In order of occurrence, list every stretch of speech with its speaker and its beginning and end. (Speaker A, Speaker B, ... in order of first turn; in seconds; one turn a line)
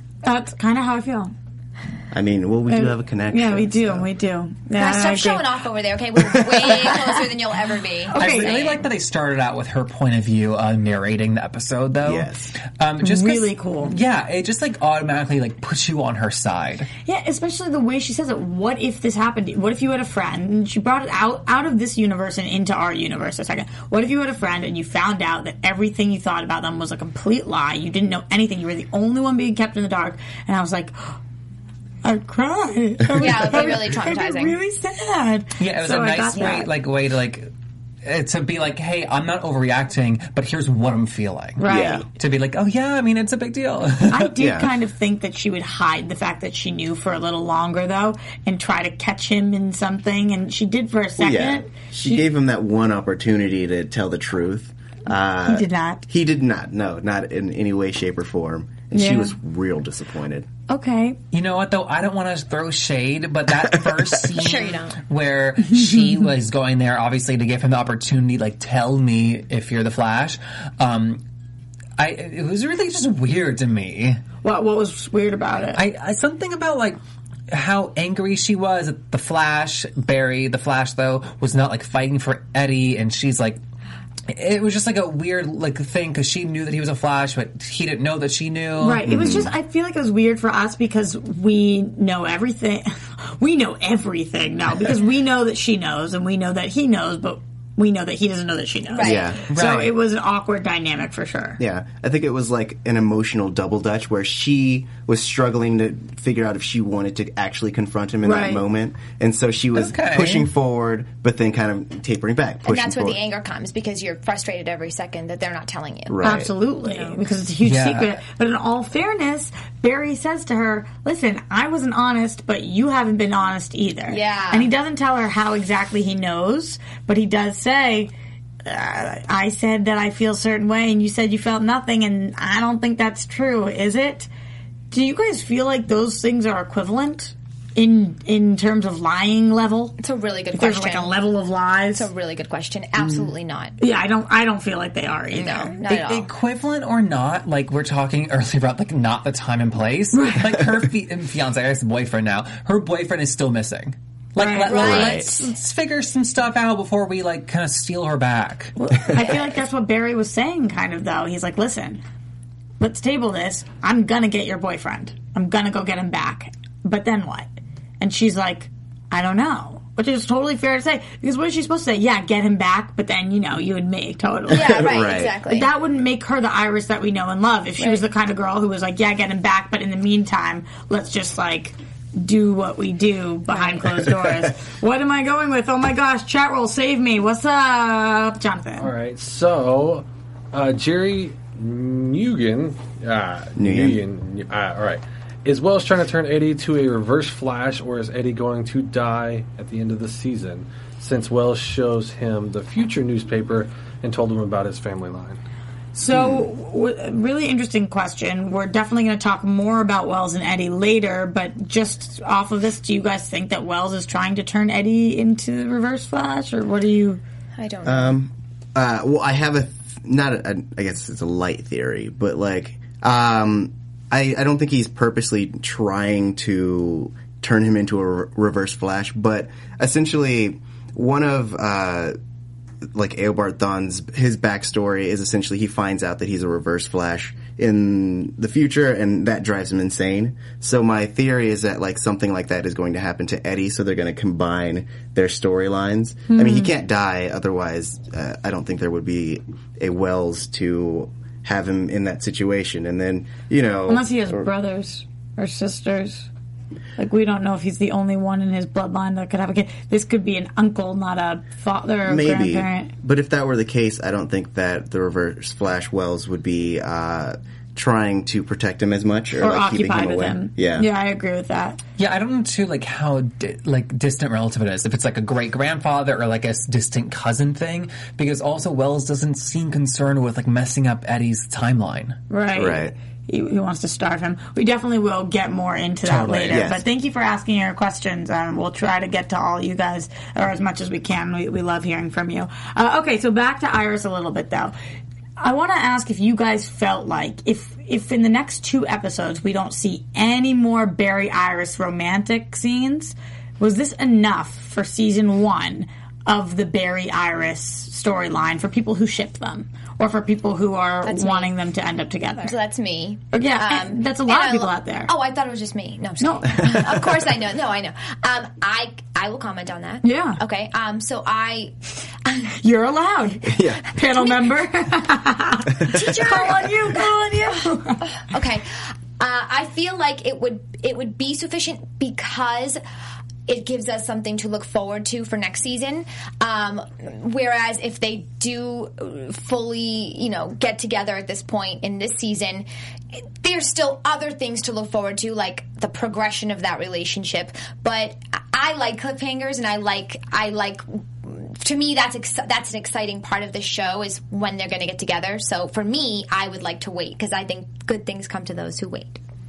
Speaker A: 0.2-1.3
Speaker B: 2.1-4.1
Speaker A: 2.7-5.4
Speaker C: 4.7-8.7
Speaker A: 8.1-8.8
Speaker D: 8.2-16.9
Speaker B: 12.0-12.5
Speaker A: 13.0-14.0
Speaker A: 17.1-30.9
Speaker A: 32.0-36.7
Speaker C: 33.1-34.6
Speaker D: 35.6-37.5
Speaker C: 36.4-36.6
Speaker D: 38.0-41.6
Speaker A: 41.6-42.0
Speaker B: 41.6-42.1
Speaker D: 42.2-44.3
Speaker A: 44.1-52.3
Speaker B: 44.4-44.7
Speaker B: 51.2-60.5
Speaker A: 55.5-56.0
Speaker A: 58.9-59.3
Speaker A: 60.7-61.2
Speaker D: 61.3-71.2
Speaker C: 64.3-65.0
Speaker A: 65.7-66.0
Speaker D: 72.0-74.2
Speaker A: 74.4-75.8
Speaker D: 75.8-77.0
Speaker D: 77.5-83.6
Speaker D: 84.3-89.1
Speaker A: 88.8-101.6
Speaker B: 89.0-89.5
Speaker C: 98.9-99.3
Speaker B: 99.0-99.6
Speaker D: 99.5-99.9
Speaker B: 101.6-113.2
Speaker A: 108.2-108.6
Speaker D: 109.8-110.5
Speaker C: 112.7-116.2
Speaker B: 116.1-116.5
Speaker A: 116.2-128.1
Speaker C: 116.8-117.2
Speaker D: 117.6-118.2
Speaker C: 124.1-124.7
Speaker A: 128.6-134.3
Speaker A: 134.9-140.0
Speaker C: 140.0-141.3
Speaker A: 140.5-142.1
Speaker C: 141.9-143.8
Speaker A: 143.8-145.8
Speaker C: 145.3-146.3
Speaker D: 145.8-158.7
Speaker A: 150.1-150.6
Speaker A: 154.4-155.5
Speaker C: 154.7-155.2
Speaker B: 154.7-155.3
Speaker A: 158.8-162.0
Speaker A: 162.8-167.5
Speaker A: 168.0-188.9
Speaker B: 174.5-175.4
Speaker C: 174.5-175.7
Speaker C: 177.8-178.1
Speaker E: 188.8-205.4
Speaker B: 193.6-194.0
Speaker A: 205.9-217.2
Speaker B: 206.1-206.5
Speaker C: 217.6-218.2
Speaker B: 217.8-232.2
Speaker B: 232.9-254.5
Speaker A: 246.3-246.8
Speaker A: 253.9-256.3
Speaker A: 257.0-262.9
Speaker B: 262.1-270.9
Speaker A: 269.4-271.8
Speaker D: 272.0-282.2
Speaker A: 282.3-294.8
Speaker B: 282.5-282.9
Speaker D: 286.1-286.6
Speaker B: 286.2-286.8
Speaker A: 295.4-312.5
Speaker C: 311.0-311.6
Speaker C: 312.4-322.5
Speaker A: 313.3-315.1
Speaker A: 316.2-316.8
Speaker A: 320.0-320.4
Speaker A: 322.6-328.0
Speaker B: 323.4-323.9
Speaker C: 324.1-324.4
Speaker B: 325.9-326.1
Speaker C: 325.9-327.1
Speaker C: 328.1-332.8
Speaker C: 333.5-342.7
Speaker C: 343.4-359.2